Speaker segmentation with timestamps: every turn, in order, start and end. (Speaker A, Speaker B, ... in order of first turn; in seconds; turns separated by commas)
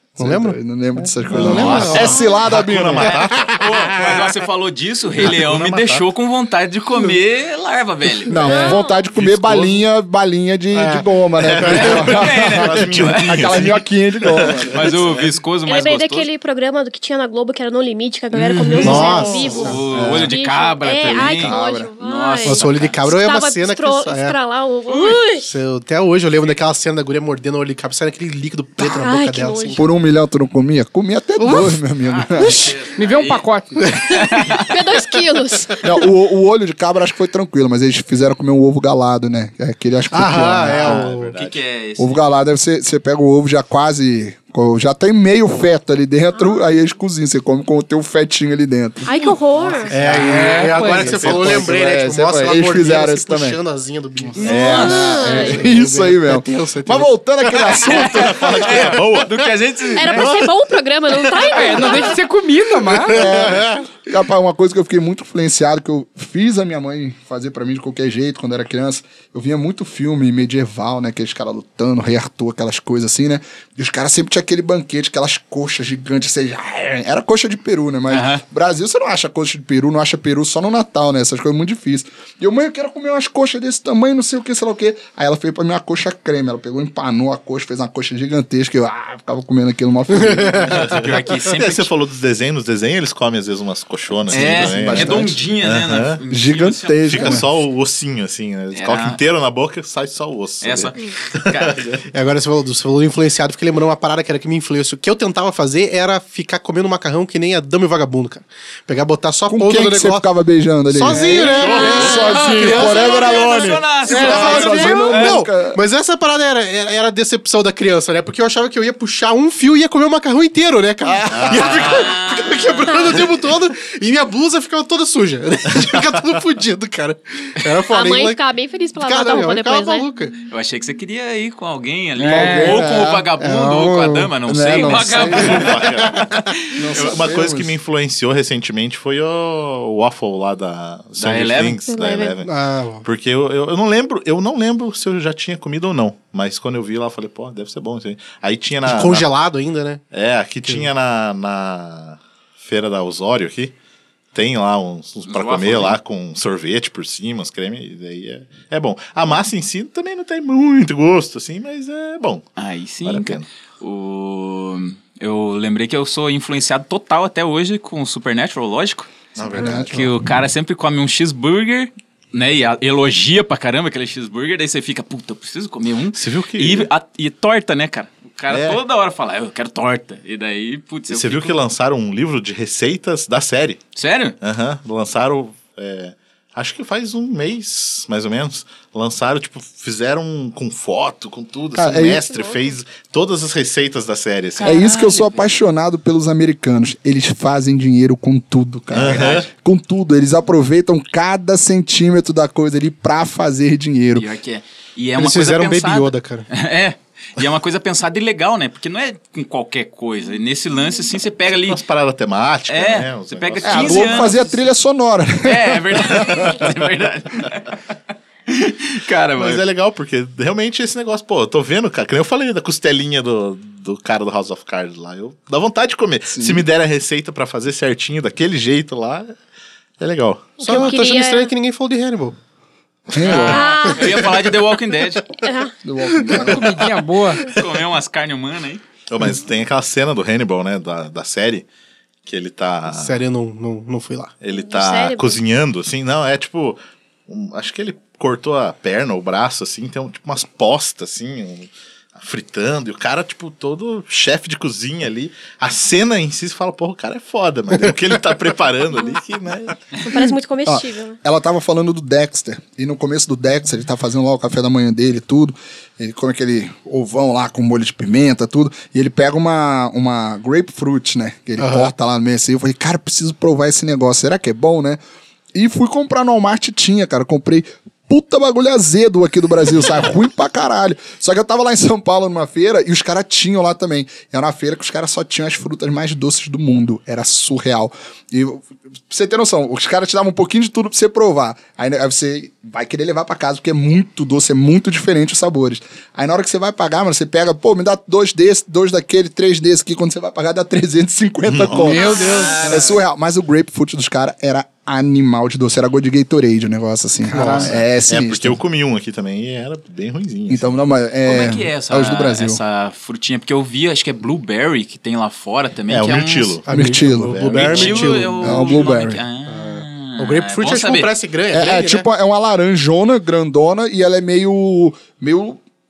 Speaker A: 0.2-2.3, Speaker B: 0.2-3.3, Speaker C: 1.3-3.6, Speaker D: 3.4-8.8, Speaker C: 5.2-6.0, Speaker B: 8.3-14.9, Speaker E: 8.4-9.0, Speaker C: 9.1-9.8, Speaker A: 10.7-11.1, Speaker C: 11.4-15.2, Speaker A: 11.6-12.0, Speaker D: 11.8-13.6, Speaker D: 14.7-16.3, Speaker E: 15.6-25.5, Speaker D: 18.3-23.0, Speaker A: 18.8-19.8, Speaker B: 19.9-20.3, Speaker B: 21.0-21.9, Speaker A: 22.4-24.4, Speaker D: 24.9-25.1, Speaker A: 25.4-29.8, Speaker E: 28.8-29.8, Speaker B: 29.8-32.7, Speaker D: 32.0-33.5, Speaker F: 33.0-33.9, Speaker D: 34.1-34.6, Speaker E: 34.1-36.0, Speaker B: 35.8-41.0, Speaker A: 40.1-41.3, Speaker C: 40.3-41.6, Speaker D: 41.4-42.2, Speaker B: 42.0-49.0, Speaker E: 49.0-50.0, Speaker A: 49.9-59.0, Speaker C: 50.0-51.7, Speaker F: 50.2-51.3, Speaker B: 50.8-53.6, Speaker E: 54.4-55.7, Speaker D: 54.4-55.0, Speaker B: 54.5-58.8, Speaker D: 57.8-60.4, Speaker C: 58.0-59.5, Speaker E: 59.9-62.2, Speaker F: 61.5-63.2, Speaker A: 62.9-63.8, Speaker B: 63.1-90.9, Speaker D: 78.1-78.4, Speaker A: 90.2-90.6, Speaker C: 90.7-96.2, Speaker D: 90.9-91.9, Speaker D: 94.3-97.4, Speaker B: 94.3-95.4, Speaker B: 96.3-97.5, Speaker C: 97.0-102.1, Speaker D: 98.7-99.2, Speaker D: 100.6-101.9, Speaker A: 102.1-110.2, Speaker B: 109.5-115.8, Speaker A: 110.9-128.4, Speaker F: 111.1-112.1, Speaker D: 111.3-115.4, Speaker B: 121.0-121.6, Speaker C: 121.3-122.1, Speaker D: 121.5-123.2, Speaker E: 127.9-130.1, Speaker A: 129.0-130.4, Speaker D: 130.5-135.8, Speaker F: 132.2-132.8, Speaker B: 132.2-133.3, Speaker A: 133.4-134.3, Speaker B: 134.4-135.7, Speaker F: 134.8-135.5, Speaker C: 135.2-136.2, Speaker A: 135.4-136.4, Speaker D: 136.5-137.2, Speaker B: 136.8-137.7, Speaker C: 136.9-142.5, Speaker D: 141.2-141.8, Speaker E: 141.8-142.4, Speaker A: 142.4-143.1, Speaker C: 143.0-149.3, Speaker A: 148.8-150.0, Speaker C: 150.1-153.7, Speaker A: 150.6-150.9, Speaker C: 154.3-162.4, Speaker D: 155.3-156.0, Speaker D: 162.6-181.6, Speaker C: 163.0-163.5, Speaker C: 169.3-170.0, Speaker B: 169.5-170.1, Speaker C: 176.1-176.9, Speaker C: 178.5-178.8, Speaker C: 181.1-183.8, Speaker D: 183.9-184.4, Speaker C: 184.4-194.8, Speaker B: 191.7-192.2, Speaker E: 192.3-192.7, Speaker D: 194.6-195.5, Speaker B: 194.6-204.3, Speaker C: 198.9-199.5, Speaker D: 199.0-199.4, Speaker D: 204.1-211.8, Speaker A: 205.2-206.5, Speaker C: 211.6-214.4, Speaker D: 212.7-214.6, Speaker B: 213.6-216.4, Speaker D: 215.4-217.8, Speaker C: 216.2-216.5, Speaker D: 218.5-219.6, Speaker C: 219.3-229.3, Speaker B: 226.3-226.7, Speaker C: 230.0-230.9, Speaker E: 230.6-231.5, Speaker A: 230.6-232.3, Speaker B: 233.1-233.7, Speaker D: 233.2-235.3, Speaker E: 233.4-234.2, Speaker A: 233.5-234.5, Speaker E: 235.4-235.7, Speaker B: 235.8-236.7, Speaker A: 236.0-236.5, Speaker F: 236.3-237.4, Speaker D: 237.4-238.8, Speaker C: 239.1-241.7, Speaker C: 242.2-243.2, Speaker A: 242.8-244.3, Speaker C: 244.4-259.8, Speaker E: 244.5-245.4, Speaker E: 260.0-261.2, Speaker B: 260.6-275.0, Speaker A: 271.6-271.9, Speaker B: 275.5-308.6, Speaker C: 301.5-302.0, Speaker F: 301.7-302.6, Speaker A: 302.1-302.8, Speaker D: 302.2-302.9, Speaker A: 307.3-307.7, Speaker C: 307.6-310.6, Speaker B: 310.5-312.6, Speaker D: 311.3-316.6, Speaker C: 315.9-318.4, Speaker A: 316.6-318.9, Speaker B: 316.7-317.5, Speaker D: 317.6-321.1, Speaker B: 318.4-319.2, Speaker A: 319.5-322.1, Speaker B: 321.5-325.6